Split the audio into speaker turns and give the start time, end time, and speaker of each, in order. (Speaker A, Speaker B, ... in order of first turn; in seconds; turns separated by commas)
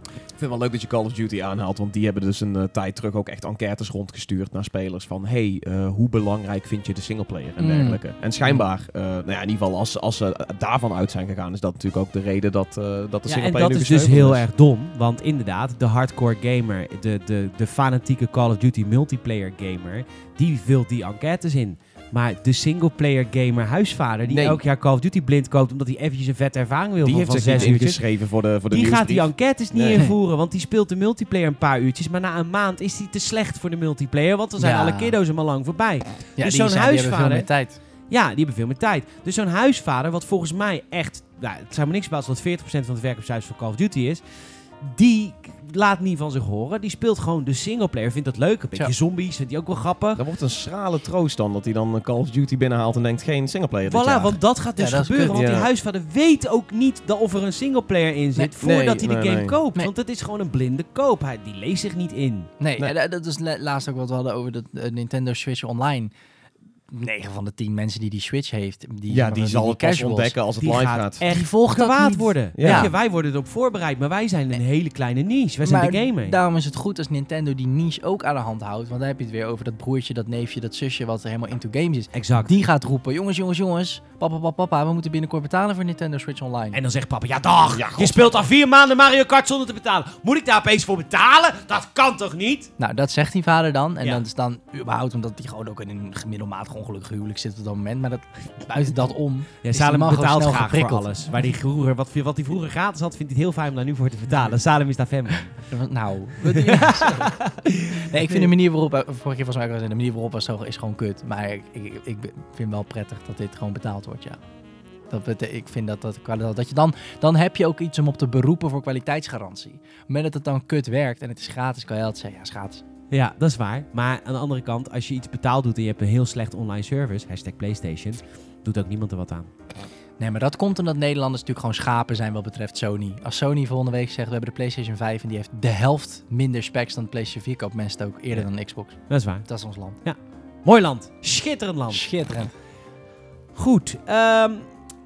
Speaker A: 0.3-14.5, Speaker B: 7.6-8.6, Speaker C: 13.3-28.0, Speaker A: 24.2-24.6, Speaker A: 27.0-30.1, Speaker C: 28.7-44.2, Speaker B: 34.6-35.2, Speaker B: 36.4-37.8, Speaker C: 44.8-50.2, Speaker A: 50.2-54.4, Speaker C: 53.9-62.5, Speaker B: 54.8-55.5, Speaker A: 55.3-55.7, Speaker A: 58.6-59.6, Speaker B: 62.6-66.1, Speaker B: 66.9-70.4, Speaker A: 69.1-71.2, Speaker C: 70.6-76.4, Speaker B: 71.3-72.9, Speaker A: 72.5-72.9, Speaker B: 75.6-86.8, Speaker C: 82.1-82.5, Speaker C: 86.7-92.7, Speaker A: 87.7-88.3, Speaker B: 92.8-101.5, Speaker C: 99.6-105.6, Speaker B: 105.6-114.4, Speaker C: 106.6-108.5, Speaker B: 115.1-122.8, Speaker C: 123.1-129.5, Speaker B: 130.2-140.0, Speaker C: 139.0-142.1, Speaker B: 141.9-142.5, Speaker C: 143.6-144.7